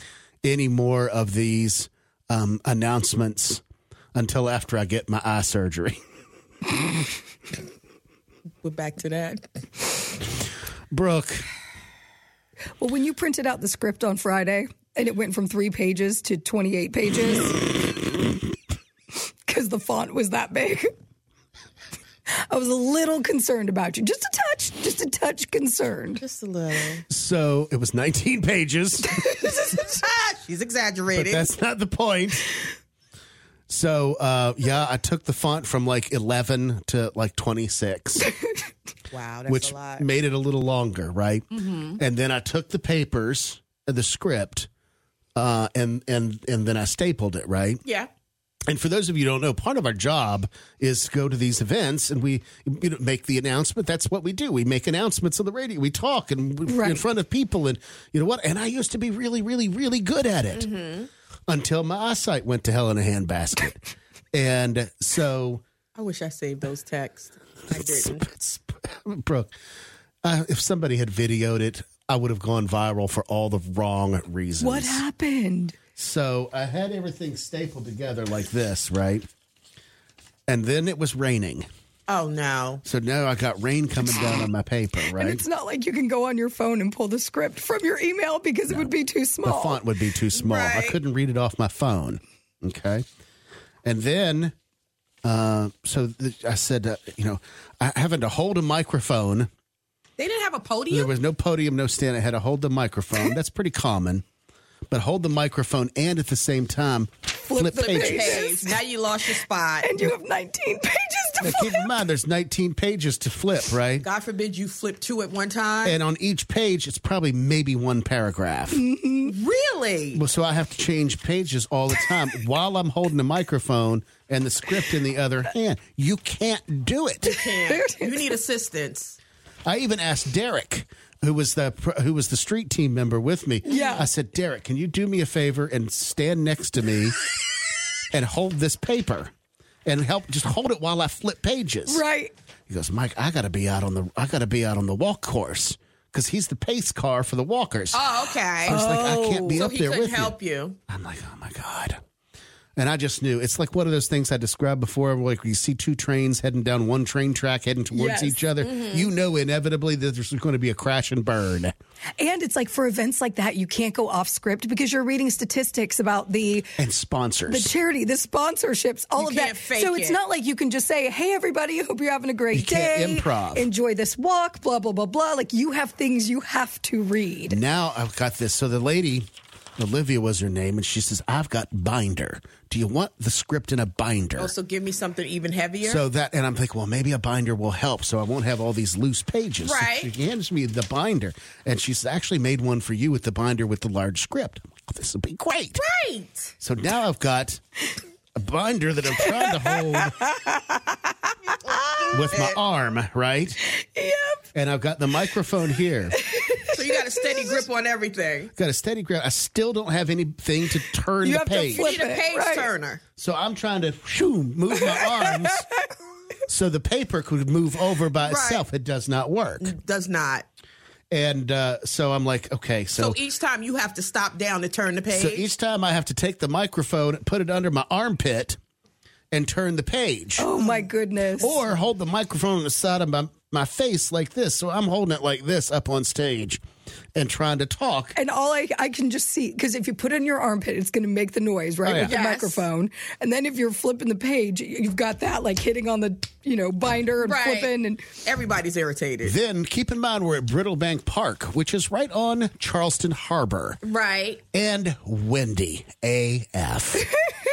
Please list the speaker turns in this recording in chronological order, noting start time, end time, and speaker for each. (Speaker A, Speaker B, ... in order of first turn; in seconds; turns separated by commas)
Speaker A: 0.4-3.6, Speaker A: 4.1-6.0, Speaker B: 8.6-9.4, Speaker A: 10.9-11.4, Speaker C: 12.8-18.0, Speaker C: 19.5-20.9, Speaker C: 22.5-26.2, Speaker B: 26.2-27.0, Speaker A: 27.1-29.2, Speaker B: 29.6-31.5, Speaker A: 31.1-32.5, Speaker A: 33.7-38.3, Speaker B: 39.1-40.1, Speaker A: 39.5-44.7, Speaker B: 41.6-42.0, Speaker A: 45.4-47.8, Speaker A: 48.7-60.7, Speaker C: 56.7-57.0, Speaker B: 60.5-61.1, Speaker A: 61.5-65.6, Speaker B: 66.0-68.2, Speaker A: 67.7-69.5, Speaker A: 70.2-75.0, Speaker C: 74.6-75.7, Speaker A: 76.0-79.3, Speaker A: 80.5-81.7, Speaker B: 82.1-82.8, Speaker A: 82.8-85.4, Speaker C: 85.1-89.8, Speaker A: 89.4-93.0, Speaker B: 90.3-91.0, Speaker A: 93.8-94.5, Speaker A: 95.2-99.5, Speaker B: 100.2-101.1, Speaker A: 100.9-104.2, Speaker A: 104.9-108.4, Speaker C: 107.5-108.8, Speaker B: 107.7-110.1, Speaker C: 109.8-111.8, Speaker A: 111.4-114.0, Speaker B: 114.0-116.0, Speaker A: 115.8-118.8, Speaker C: 118.7-119.3, Speaker B: 119.2-120.2, Speaker A: 120.1-127.4, Speaker B: 127.2-129.2, Speaker C: 127.7-128.2, Speaker A: 129.7-137.2, Speaker C: 133.7-134.1, Speaker B: 133.7-134.0, Speaker A: 138.1-139.3, Speaker A: 139.9-142.0, Speaker C: 141.9-142.3, Speaker A: 142.7-148.1, Speaker B: 147.9-150.8, Speaker A: 148.6-150.3, Speaker C: 148.7-149.2, Speaker A: 150.9-151.9, Speaker A: 152.8-161.7, Speaker C: 157.9-158.4, Speaker B: 158.6-159.1, Speaker C: 162.2-166.7, Speaker A: 166.8-167.7, Speaker C: 167.5-177.6, Speaker B: 169.2-170.2, Speaker A: 172.5-173.7, Speaker A: 177.5-179.3, Speaker A: 179.8-184.5, Speaker B: 184.4-186.0, Speaker A: 185.8-195.8, Speaker B: 189.6-190.1, Speaker B: 195.8-196.5, Speaker A: 196.6-197.6, Speaker A: 198.3-200.2, Speaker C: 199.2-201.0, Speaker B: 201.6-202.6, Speaker C: 201.7-202.1, Speaker A: 202.1-203.6, Speaker C: 203.8-204.4, Speaker A: 204.5-206.2, Speaker C: 206.2-206.8, Speaker B: 206.7-208.5, Speaker A: 208.6-211.9, Speaker C: 211.2-212.7, Speaker B: 211.7-213.0, Speaker A: 213.2-215.6, Speaker C: 214.8-215.6, Speaker A: 216.5-219.7, Speaker B: 218.2-218.7, Speaker B: 219.6-220.4, Speaker A: 221.1-223.2, Speaker B: 222.9-225.5, Speaker A: 225.1-228.6, Speaker A: 229.3-230.7, Speaker C: 230.4-231.6, Speaker A: 231.3-236.6, Speaker A: 237.1-238.2, Speaker C: 238.1-248.1, Speaker A: 241.8-242.2, Speaker B: 242.0-242.7, Speaker B: 247.2-249.3, Speaker A: 249.2-253.8, Speaker B: 253.8-254.4, Speaker A: 254.5-257.1